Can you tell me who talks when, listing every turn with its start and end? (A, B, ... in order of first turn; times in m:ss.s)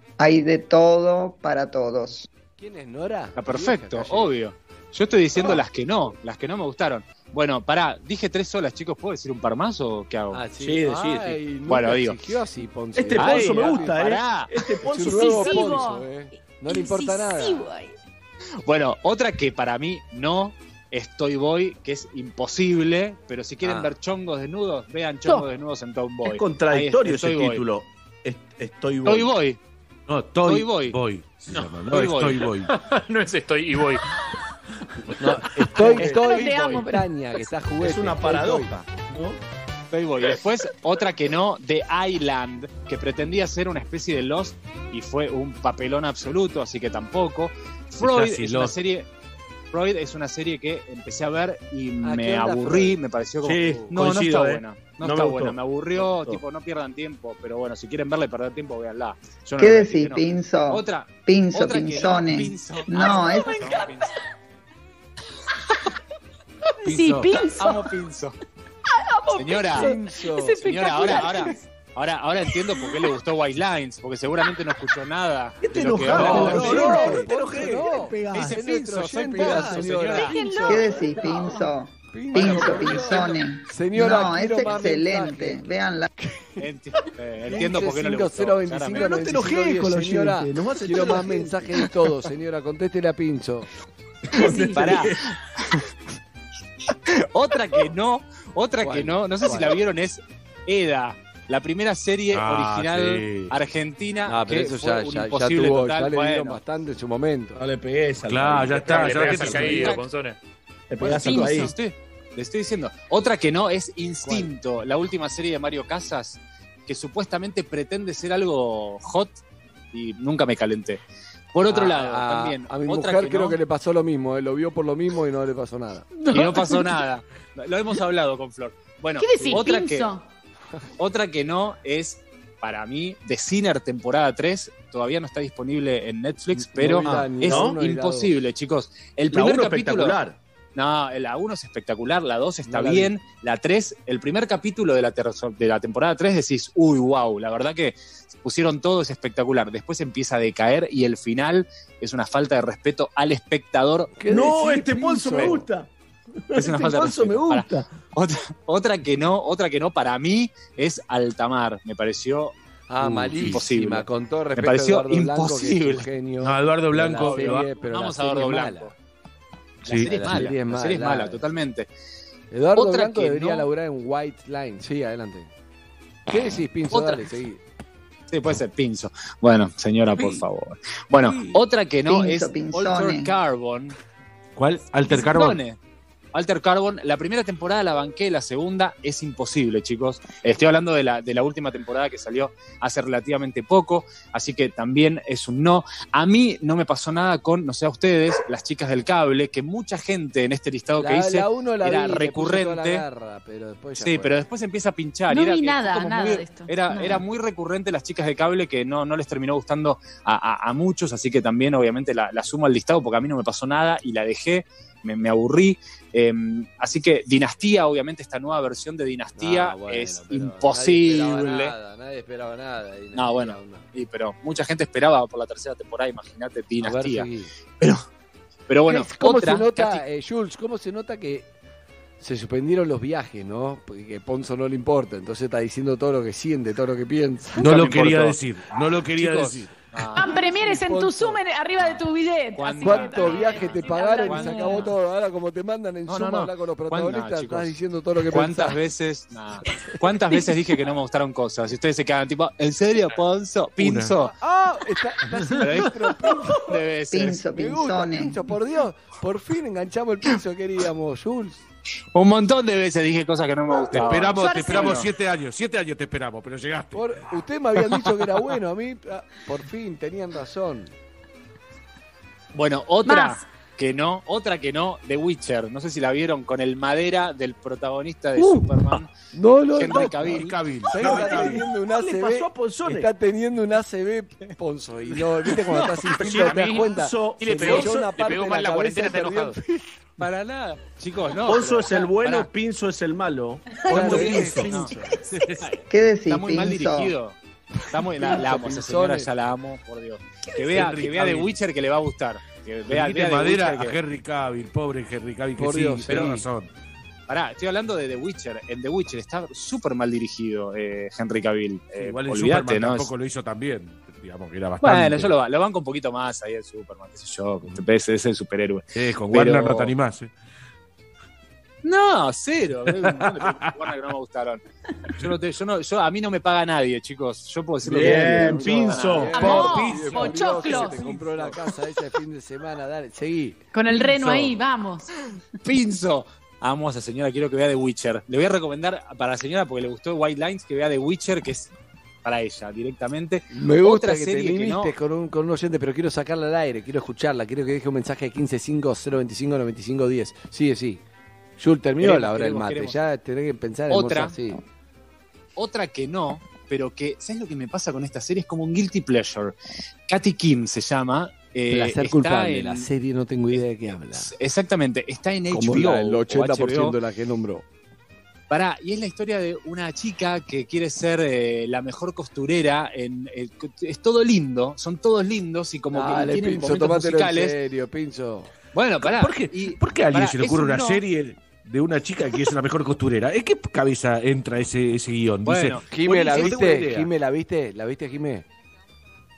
0:00.2-0:02.3 A
0:02.6-0:04.3 B
0:03.4-0:10.5 C
0:10.3-0:14.0 B
0:10.6-0:11.4 D
0:11.7-0:12.2 C
0:13.0-0:15.8 D
0:13.2-0:14.5 C
0:14.9-0:17.7 B
0:15.1-0:18.0 E
0:18.6-0:27.6 C
0:26.2-0:29.3 D
0:29.1-0:29.6 C
0:30.1-0:32.7 F
0:30.4-0:31.0 C
0:31.9-0:32.4 C
0:32.7-0:34.0 G
0:35.2-0:38.7 B
0:35.8-0:36.2 D
0:35.9-0:37.1 E
0:36.0-0:36.8 C
0:37.8-0:39.4 D
0:39.9-0:49.1 C
0:48.0-0:48.8 F
0:49.7-1:04.0 C
0:52.0-0:53.0 B
0:53.4-0:56.4 D
0:53.6-0:53.9 B
0:59.6-1:03.8 A
1:03.6-1:03.9 E
1:06.8-1:07.9 E
1:06.8-1:07.4 F
1:07.6-1:08.3 C
1:09.3-1:11.5 B
1:09.3-1:11.5 E
1:09.4-1:10.0 C
1:10.5-1:17.2 C
1:15.6-1:18.6 D
1:16.1-1:21.6 B
1:16.2-1:16.7 F
1:18.3-1:20.4 C
1:19.4-1:19.8 D
1:20.2-1:21.1 E
1:20.6-1:26.1 A
1:22.1-1:25.6 B
1:22.4-1:23.2 D
1:26.6-1:29.1 C
1:27.5-1:33.7 B
1:29.0-1:31.7 D
1:34.3-1:35.2 D
1:34.4-1:35.0 E
1:34.7-1:35.1 C
1:37.3-1:46.6 C
1:38.8-1:39.8 B
1:42.3-1:43.6 F
1:44.2-1:47.6 B
1:47.6-1:50.0 D
1:48.2-1:49.9 F
1:49.0-1:50.4 G
1:49.4-1:50.0 C
1:50.9-1:51.7 D
1:51.0-1:59.4 C
1:51.0-1:51.7 E
1:54.2-1:54.5 B
1:59.9-2:01.0 C
2:01.5-2:03.6 C
2:01.7-2:06.1 B
2:06.2-2:06.9 E
2:06.3-2:10.1 C
2:09.2-2:10.2 E
2:11.0-2:20.2 C
2:16.6-2:18.4 B
2:17.4-2:17.8 D
2:19.3-2:20.4 D
2:20.8-2:34.1 C
2:22.7-2:23.2 B
2:34.2-2:35.7 B
2:34.2-2:35.9 D
2:36.5-2:37.9 D
2:36.6-2:42.5 C
2:42.9-2:48.9 B
2:43.0-2:43.6 F
2:43.4-2:46.1 C
2:46.4-2:47.7 F
2:47.2-2:48.9 C
2:49.8-2:51.9 C
2:49.9-2:50.5 F
2:49.9-2:51.4 B
2:52.5-2:55.5 B
2:52.8-2:53.7 C
2:56.3-2:57.6 B
2:56.9-2:57.2 C
2:58.3-3:04.0 C
3:02.0-3:03.3 A
3:04.6-3:05.6 F
3:05.1-3:05.8 C
3:06.3-3:23.0 C
3:21.0-3:24.4 B
3:24.0-3:41.7 C
3:25.3-3:27.2 E
3:39.4-3:43.9 B
3:43.1-3:47.3 C
3:46.8-3:47.5 B
3:48.7-3:50.0 C
3:48.9-3:51.5 B
3:52.2-3:58.4 B
3:57.6-3:59.7 F
3:59.2-4:00.8 C
4:00.2-4:04.9 E
4:00.7-4:01.3 B
4:02.6-4:04.9 C
4:02.8-4:08.8 B
4:06.1-4:07.7 C
4:08.3-4:14.3 C
4:13.8-4:14.1 F
4:14.2-4:16.8 B
4:15.6-4:16.0 C
4:16.5-4:17.4 C
4:17.1-4:18.4 A
4:17.5-4:21.6 B
4:22.1-4:25.0 C
4:23.9-4:27.0 F
4:24.3-4:25.0 E
4:26.9-4:30.9 B
4:32.5-4:39.1 C
4:33.0-4:33.4 E
4:39.3-4:49.6 B
4:39.8-4:40.5 C
4:39.9-4:41.6 F
4:41.0-4:43.1 D
4:46.2-4:48.0 D
4:46.3-4:49.6 G
4:50.2-4:52.5 C
4:51.4-4:54.7 D
4:53.9-4:54.9 B
4:53.9-4:55.7 F
4:54.0-4:54.9 C
4:55.9-4:57.2 A
4:56.3-4:57.4 C
4:57.9-5:04.0 C
4:58.2-4:59.3 B
5:00.6-5:01.6 F
5:02.9-5:06.7 F
5:05.6-5:06.3 B
5:06.1-5:06.4 C
5:07.3-5:13.1 C
5:12.0-5:15.3 F
5:14.8-5:19.9 C
5:19.0-5:20.3 F
5:21.8-5:24.6 C
5:23.0-5:23.5 F
5:25.2-5:29.7 C
5:27.9-5:33.6 B
5:27.9-5:29.8 D
5:29.3-5:31.1 E
5:30.7-5:31.1 F
5:33.7-5:35.1 E
5:34.2-5:34.5 C
5:35.6-5:41.7 C
5:42.2-5:44.9 C
5:43.5-5:51.0 B
5:51.6-5:54.6 B
5:52.0-5:53.0 C
5:53.9-5:54.3 C
5:55.6-5:59.6 C
6:00.1-6:02.9 C
6:01.7-6:04.3 B
6:04.2-6:07.0 C
6:05.5-6:07.6 B
6:08.5-6:17.5 C
6:15.9-6:18.5 B
6:18.7-6:21.0 C
6:19.0-6:27.1 F
6:25.4-6:26.6 C
6:25.9-6:28.4 B